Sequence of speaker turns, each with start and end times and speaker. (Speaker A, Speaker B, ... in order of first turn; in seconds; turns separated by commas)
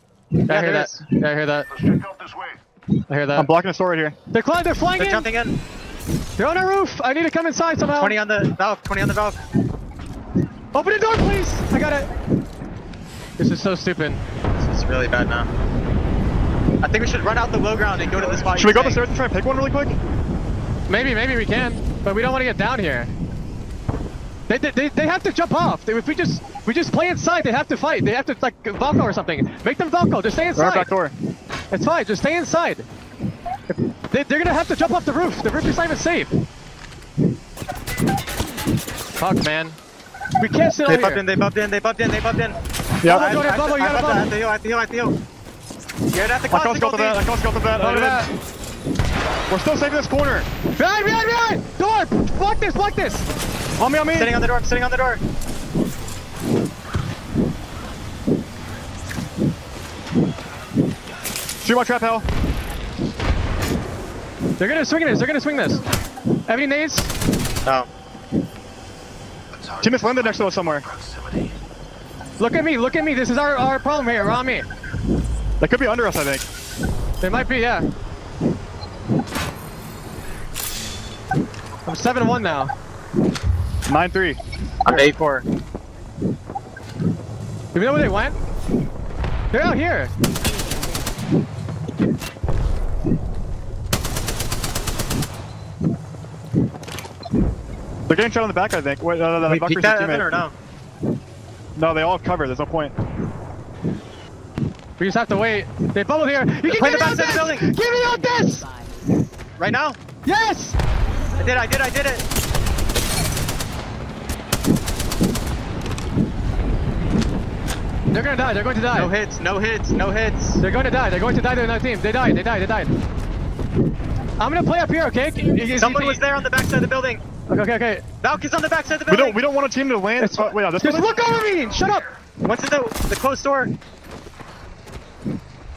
Speaker A: 0.5-1.0, Speaker B: 0.5-1.7, Speaker B: 3.1-3.5, Speaker C: 3.3-4.2, Speaker B: 4.3-5.3, Speaker A: 5.0-5.6, Speaker B: 6.4-8.2, Speaker A: 8.0-9.4, Speaker B: 10.7-12.1, Speaker B: 13.4-14.2, Speaker A: 14.6-15.5, Speaker A: 16.8-19.0, Speaker C: 18.5-20.0, Speaker B: 20.9-23.1, Speaker B: 24.5-30.9, Speaker C: 30.6-31.1, Speaker B: 31.7-32.9, Speaker B: 33.7-36.4, Speaker B: 39.2-39.8, Speaker B: 40.4-41.2, Speaker A: 40.9-45.2, Speaker C: 43.0-43.3, Speaker B: 43.1-44.3, Speaker A: 46.1-47.2, Speaker C: 46.5-48.2, Speaker B: 47.8-48.3, Speaker C: 49.5-50.5, Speaker B: 50.8-53.3, Speaker C: 53.8-54.3, Speaker A: 54.1-55.2, Speaker C: 61.6-62.2, Speaker B: 64.6-65.8, Speaker B: 66.5-67.1, Speaker C: 69.8-70.9, Speaker B: 72.4-74.7, Speaker C: 75.6-76.5, Speaker B: 77.2-77.9, Speaker B: 81.8-82.7, Speaker C: 83.9-85.1, Speaker A: 84.8-85.4, Speaker B: 87.7-88.4, Speaker B: 89.5-90.1, Speaker C: 98.1-100.2, Speaker A: 99.4-100.5, Speaker C: 101.8-102.9, Speaker B: 105.0-108.7, Speaker A: 106.6-107.7, Speaker A: 109.6-110.0, Speaker B: 110.2-110.8, Speaker A: 111.4-112.2, Speaker B: 118.1-119.1, Speaker A: 118.9-120.6, Speaker B: 120.6-123.0, Speaker B: 124.4-126.2, Speaker A: 125.8-127.2, Speaker B: 127.5-128.0, Speaker A: 128.2-129.4, Speaker C: 129.1-131.2, Speaker B: 130.2-132.1, Speaker A: 132.4-133.7